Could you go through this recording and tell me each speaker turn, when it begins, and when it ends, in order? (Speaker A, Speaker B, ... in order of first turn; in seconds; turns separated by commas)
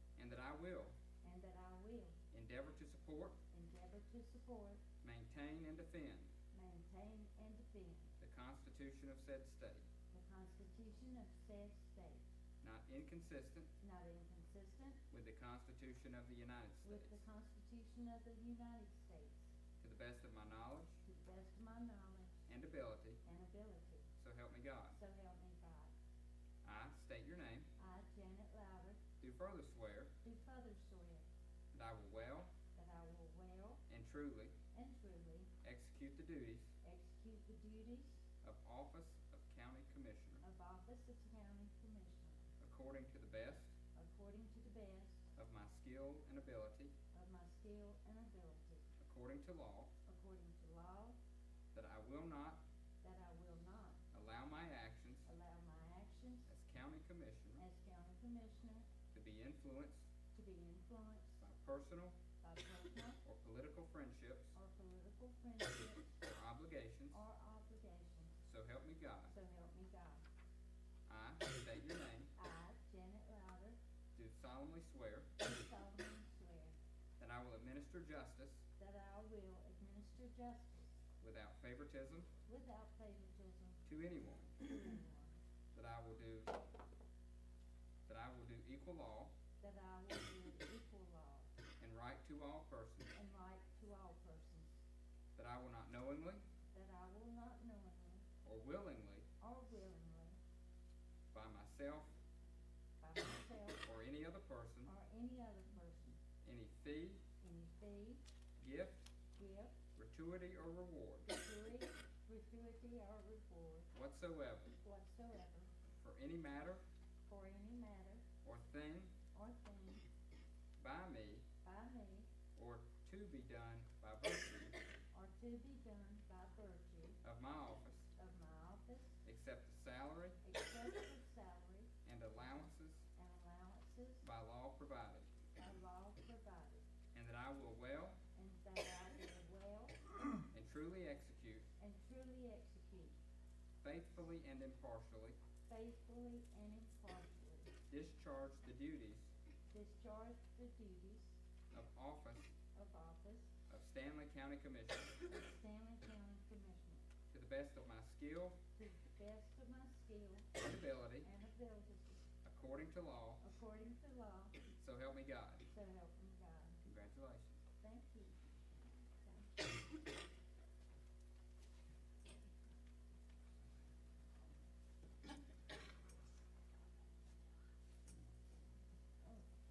Speaker A: 0.2-1.0, Speaker B: 1.2-2.1, Speaker A: 2.3-3.4, Speaker B: 3.5-4.8, Speaker A: 5.0-6.3, Speaker B: 6.5-8.1, Speaker A: 8.2-9.9, Speaker B: 10.1-12.2, Speaker A: 12.6-13.7, Speaker B: 13.8-15.0, Speaker A: 15.1-17.2, Speaker B: 16.8-19.5, Speaker A: 19.8-21.0, Speaker B: 21.1-22.5, Speaker A: 22.5-23.2, Speaker B: 23.2-24.1, Speaker A: 24.2-25.0, Speaker B: 24.9-25.9, Speaker A: 26.6-27.7, Speaker B: 27.8-29.0, Speaker A: 29.2-30.1, Speaker B: 30.2-31.2, Speaker A: 31.7-32.5, Speaker B: 32.7-33.8, Speaker A: 33.9-34.5, Speaker B: 34.7-35.5, Speaker A: 35.6-36.7, Speaker B: 36.8-38.2, Speaker A: 38.4-40.5, Speaker B: 40.4-42.5, Speaker A: 42.6-43.7, Speaker B: 44.0-45.3, Speaker A: 45.4-46.9, Speaker B: 47.1-48.9, Speaker A: 49.0-49.9, Speaker B: 50.1-51.2, Speaker A: 51.7-52.6, Speaker B: 53.0-54.0, Speaker A: 54.1-55.3, Speaker B: 55.3-56.5, Speaker A: 56.5-57.6, Speaker B: 57.6-58.9, Speaker A: 59.1-60.1, Speaker B: 60.3-61.4, Speaker A: 61.4-62.2, Speaker B: 62.4-63.2, Speaker A: 63.2-64.6, Speaker B: 64.5-66.2, Speaker A: 66.2-67.2, Speaker B: 67.1-68.4, Speaker A: 68.4-69.3, Speaker B: 69.3-70.2, Speaker A: 71.1-72.3, Speaker B: 72.4-73.8, Speaker A: 74.2-75.4, Speaker B: 75.4-76.8, Speaker A: 77.2-78.7, Speaker B: 78.8-80.9, Speaker A: 81.2-82.3, Speaker B: 82.5-83.8, Speaker A: 83.8-84.7, Speaker B: 84.6-85.3, Speaker A: 85.7-86.5, Speaker A: 88.1-89.3, Speaker B: 89.6-91.5, Speaker A: 91.8-93.1, Speaker B: 93.1-94.8, Speaker A: 95.4-96.4, Speaker B: 96.7-98.2, Speaker A: 98.4-99.3, Speaker B: 99.4-100.4, Speaker A: 101.3-102.2, Speaker B: 103.0-103.8, Speaker A: 103.8-104.9, Speaker B: 104.8-106.2, Speaker A: 106.4-107.3, Speaker B: 107.4-108.2, Speaker A: 108.6-109.1, Speaker B: 109.4-109.8, Speaker A: 110.0-111.3, Speaker B: 111.3-113.9, Speaker A: 113.9-114.8, Speaker B: 114.8-115.7, Speaker A: 115.9-116.8, Speaker B: 117.3-118.2, Speaker A: 118.4-119.2, Speaker B: 119.3-120.0, Speaker A: 120.8-121.5, Speaker B: 121.6-122.3, Speaker A: 122.5-124.8, Speaker B: 125.1-127.2, Speaker A: 127.2-128.1, Speaker B: 128.2-129.2, Speaker A: 129.2-130.4, Speaker B: 130.4-131.9, Speaker A: 132.0-133.1, Speaker B: 133.2-134.3, Speaker A: 134.2-135.3, Speaker B: 135.6-136.8, Speaker A: 137.1-138.2, Speaker B: 138.3-140.1, Speaker A: 140.5-141.7, Speaker B: 141.8-143.2, Speaker A: 143.8-145.4, Speaker B: 145.7-147.7, Speaker A: 147.9-149.3, Speaker B: 149.7-151.4, Speaker A: 151.7-152.6, Speaker B: 152.7-153.5, Speaker A: 153.7-155.2, Speaker B: 155.2-157.0, Speaker A: 157.3-158.6, Speaker B: 158.8-160.6, Speaker A: 160.6-161.3, Speaker B: 161.2-162.2, Speaker A: 162.4-163.4, Speaker B: 163.4-164.6, Speaker A: 164.8-165.7, Speaker B: 165.7-166.8, Speaker A: 166.9-167.6, Speaker B: 167.8-168.4